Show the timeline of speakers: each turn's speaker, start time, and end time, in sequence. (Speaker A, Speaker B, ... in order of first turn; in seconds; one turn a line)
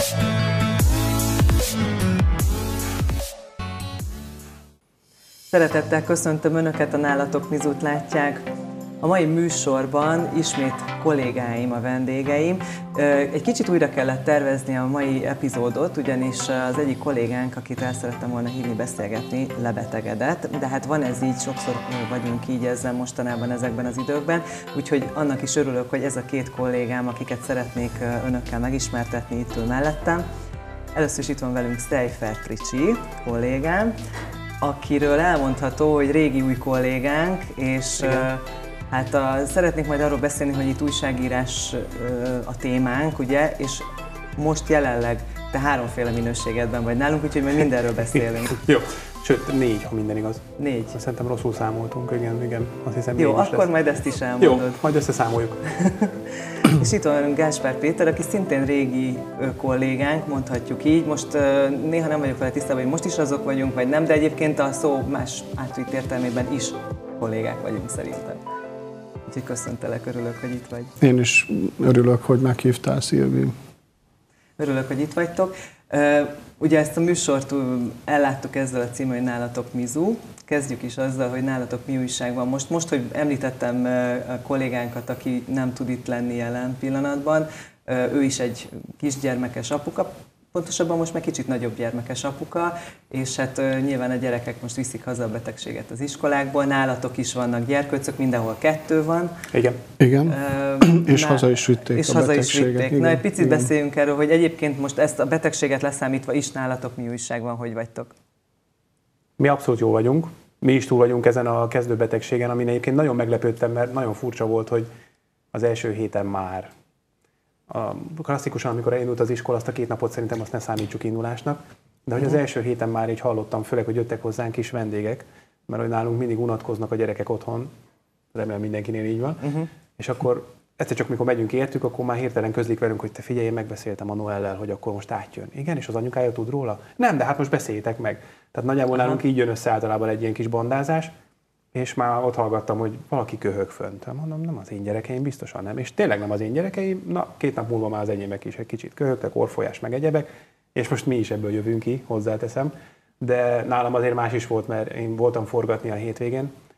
Speaker A: 5.5-8.4
Speaker A: 9.0-30.2
Speaker A: 30.9-34.0
Speaker A: 34.6-48.6
Speaker B: 48.5-53.7
Speaker A: 50.6-50.9
Speaker A: 53.1-54.8
Speaker B: 54.4-55.7
Speaker A: 55.7-68.4
Speaker A: 69.3-70.9
Speaker C: 71.0-73.5
Speaker A: 74.6-99.4
Speaker B: 99.5-99.8
Speaker C: 100.0-103.7
Speaker A: 100.3-108.1
Speaker B: 109.4-114.9
Speaker B: 115.5-116.7
Speaker B: 117.7-127.7
Speaker B: 128.3-141.1
Speaker B: 141.7-156.5